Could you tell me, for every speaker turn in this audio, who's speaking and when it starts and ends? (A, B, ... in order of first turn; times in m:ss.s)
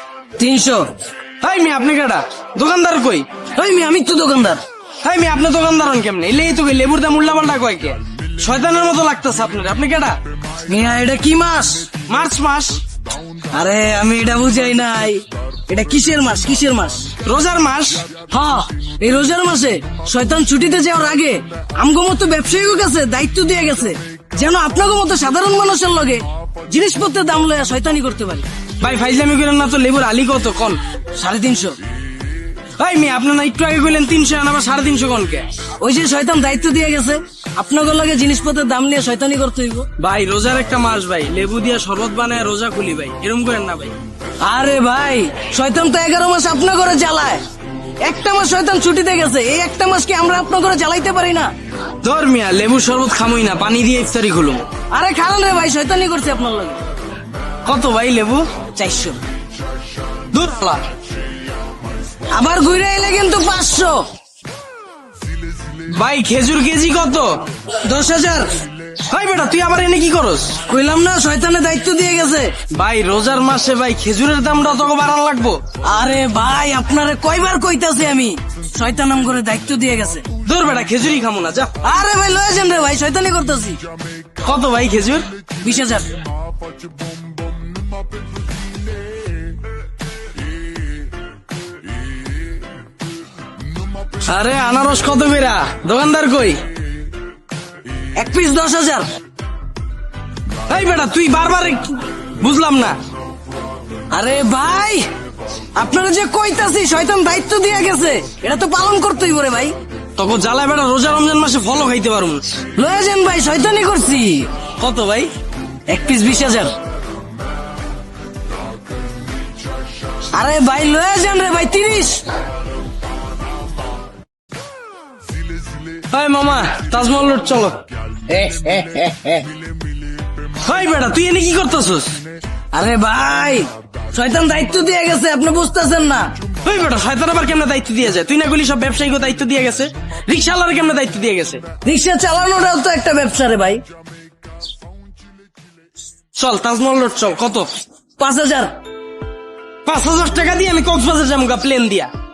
0:00.4-0:00.9 A
0:01.4-0:03.2 B
0:03.6-0:04.6 A
0:05.0-0:10.2 B
0:10.7-0:11.9 A
0:12.1-0:12.8 B
0:13.5-0:17.2 A
0:17.2-0:18.1 B
0:18.3-0:28.5 A
0:28.8-0:30.8 B
0:31.1-0:31.8 A
0:32.8-0:35.4 B
0:35.8-0:39.9 A
0:40.0-0:44.0 B
0:44.4-0:47.4 A
0:48.0-0:51.5 A
0:52.0-0:54.6 B
0:54.9-0:56.8 A
0:57.6-0:58.6 B
0:58.8-0:59.2 A
1:00.3-1:00.8 B
1:02.3-1:04.0 A
1:05.8-1:07.4 B
1:07.8-1:08.6 A
1:09.0-1:10.6 B
1:10.6-1:12.6 A
1:12.7-1:15.6 B
1:15.8-1:20.2 A
1:20.4-1:21.7 B
1:21.8-1:23.8 A
1:24.4-1:25.3 B
1:25.6-1:26.1 A
1:34.2-1:36.6 B
1:38.2-1:39.1 A
1:40.7-1:43.0 B
1:44.1-1:45.0 A
1:45.8-1:49.7 A
1:50.2-1:52.5 B
1:52.8-1:54.6 A
1:54.8-1:55.3 B
1:55.9-1:56.7 A
2:00.3-2:02.2 A
2:06.1-2:07.8 B
2:08.3-2:09.5 A
2:10.6-2:12.1 B
2:12.7-2:16.3 A
2:16.6-2:21.6 B
2:21.8-2:23.8 A
2:26.4-2:27.7 B
2:28.2-2:28.7 A
2:29.8-2:32.1 B